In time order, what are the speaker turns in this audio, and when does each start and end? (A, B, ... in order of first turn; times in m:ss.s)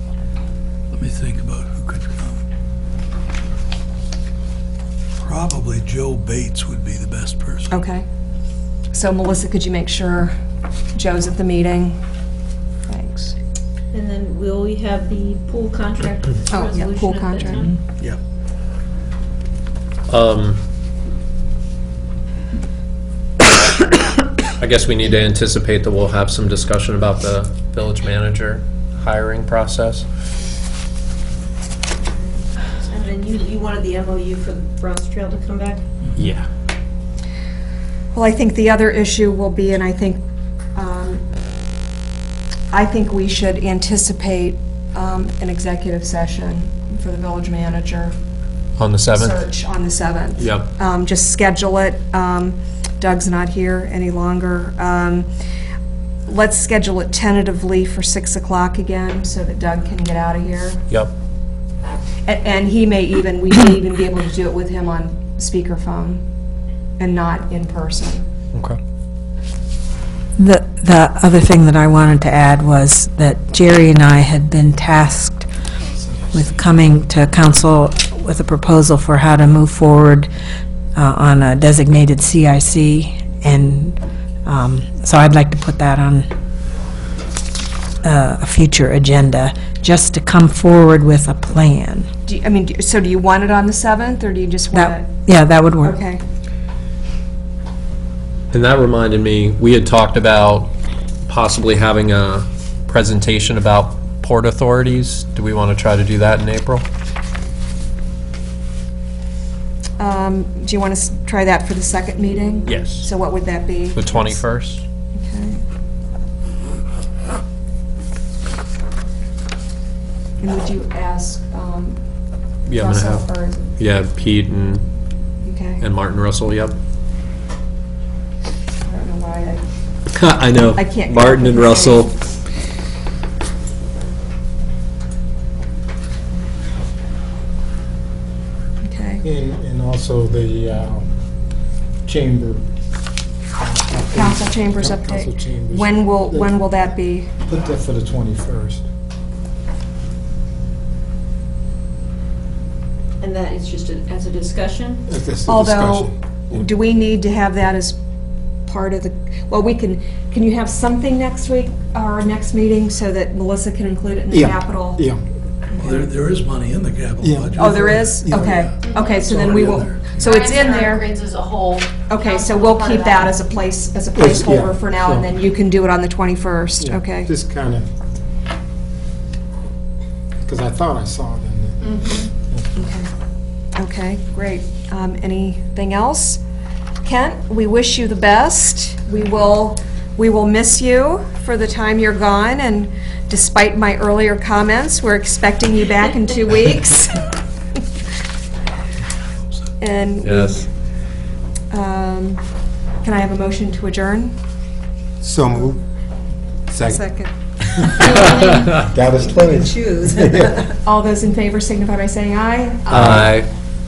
0:00.9-0:02.4 A
0:05.2-0:07.8 A
0:07.7-0:08.0 B
0:08.9-0:10.4 B
0:10.9-0:12.0 B
0:12.9-0:13.4 B
0:13.9-0:17.7 C
0:16.5-0:17.7 B
0:20.1-0:20.6 D
0:24.6-0:30.1 D
0:32.8-0:35.8 C
0:36.2-0:36.5 D
0:38.1-0:40.2 B
0:40.7-0:41.2 B
0:42.7-0:48.1 B
0:48.8-0:49.5 D
0:49.1-0:55.3 B
0:50.4-0:50.7 D
0:56.3-1:00.8 B
1:02.2-1:06.2 B
1:07.0-1:08.2 B
1:08.5-1:08.8 D
1:10.4-1:15.5 E
1:16.3-1:20.3 E
1:20.9-1:26.3 E
1:28.0-1:32.1 E
1:32.2-1:35.2 B
1:34.7-1:36.0 E
1:35.8-1:36.2 B
1:38.5-1:40.7 D
1:41.3-1:46.8 D
1:50.0-1:54.4 B
1:52.7-1:53.1 D
1:53.9-1:54.8 D
1:55.2-1:55.6 B
2:00.4-2:02.0 B
2:02.7-2:04.8 D
2:02.7-2:03.7 B
2:05.4-2:05.8 B
2:05.8-2:06.8 D
2:08.8-2:09.6 B
2:10.1-2:12.1 D
2:10.7-2:12.1 B
2:18.8-2:19.2 B
2:19.2-2:21.1 F
2:22.0-2:22.6 F
2:23.6-2:26.6 F
2:24.1-2:27.3 B
2:27.4-2:28.8 F
2:33.2-2:35.0 C
2:35.1-2:36.1 F
2:35.4-2:38.0 B
2:38.6-2:45.0 B
2:44.3-2:45.2 F
2:45.7-2:46.0 B
2:45.8-2:50.4 A
2:47.2-2:48.5 F
2:47.6-2:51.1 B
2:48.8-2:49.2 C
2:50.2-2:53.3 C
2:52.1-2:57.3 B
2:54.1-2:55.3 F
2:56.8-2:57.9 F
3:00.4-3:02.8 F
3:02.8-3:03.1 B
3:03.8-3:06.4 B
3:07.0-3:17.3 B
3:19.8-3:20.7 B
3:20.2-3:20.6 D
3:21.7-3:22.4 B
3:23.0-3:24.4 B
3:25.2-3:25.8 F
3:26.7-3:27.1 F
3:26.8-3:27.3 B
3:27.7-3:30.6 F
3:27.9-3:28.4 B
3:30.5-3:33.3 B
3:32.9-3:33.5 D